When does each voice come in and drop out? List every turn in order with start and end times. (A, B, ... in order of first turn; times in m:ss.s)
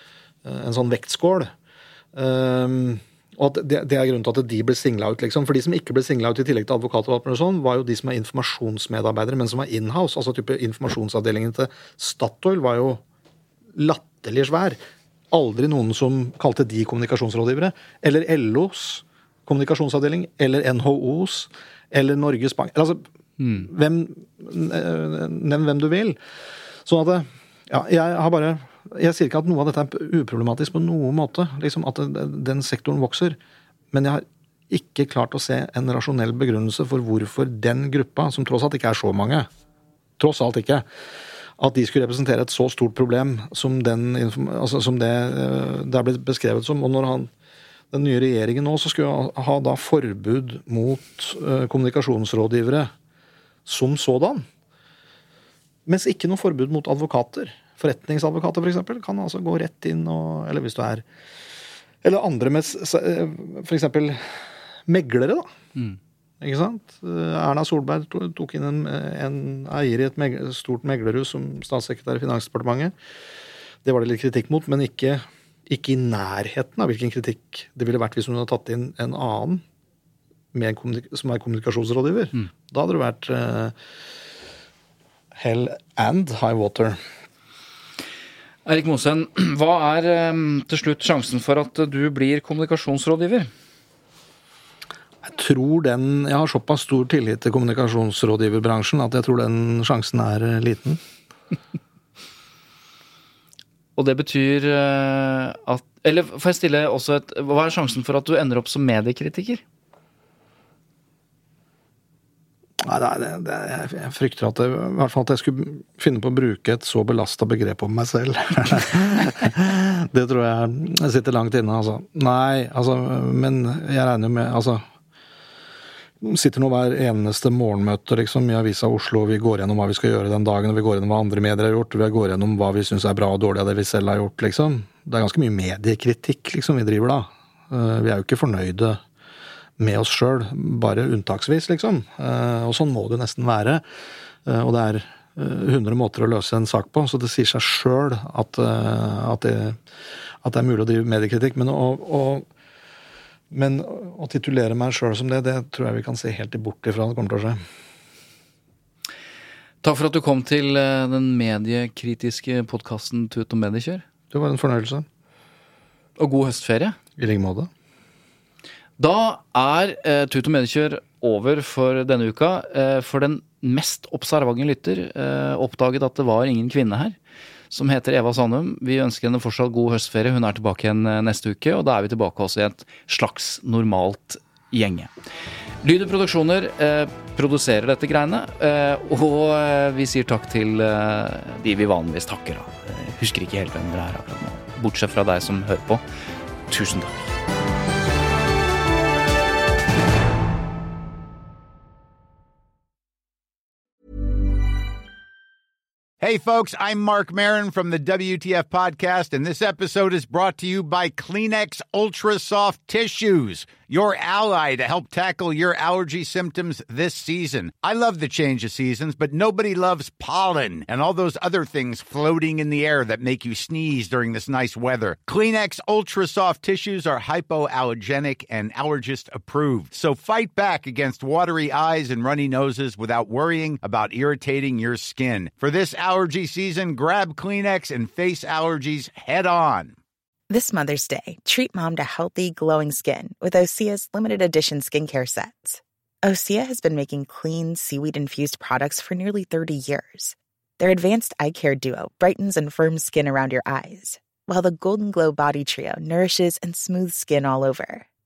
0:00.4-0:01.5 A
0:02.1-0:13.0 A
0:13.7-0:14.8 A
0:15.3-0:23.0 A
0:23.4-0:23.7 B
0:23.6-0:26.2 A
0:26.8-0:33.4 A
0:33.9-0:39.5 A
0:40.2-0:40.9 A
0:41.6-0:47.3 A
0:47.9-0:52.9 A
0:53.6-0:54.5 A
0:55.9-1:01.0 A
1:02.0-1:04.3 A
1:04.9-1:05.5 A
1:06.4-1:12.9 A
1:13.8-1:19.6 A
1:20.5-1:23.7 A
1:25.3-1:27.0 A
1:28.7-1:33.5 B
1:35.2-1:41.0 A
1:44.0-1:49.6 B
1:52.8-2:04.8 A
2:06.2-2:19.0 A
2:19.8-2:23.8 A
2:24.4-2:29.8 A
2:30.4-2:32.5 A
2:33.5-2:37.6 A
2:39.8-2:44.0 B
2:44.3-2:45.0 A
2:46.2-2:47.0 B
2:47.2-2:47.7 A
2:49.0-2:57.2 B
2:57.7-3:05.1 B
3:05.8-3:16.0 B
3:16.7-3:17.3 B
3:26.2-4:00.0 C
4:00.5-4:18.0 D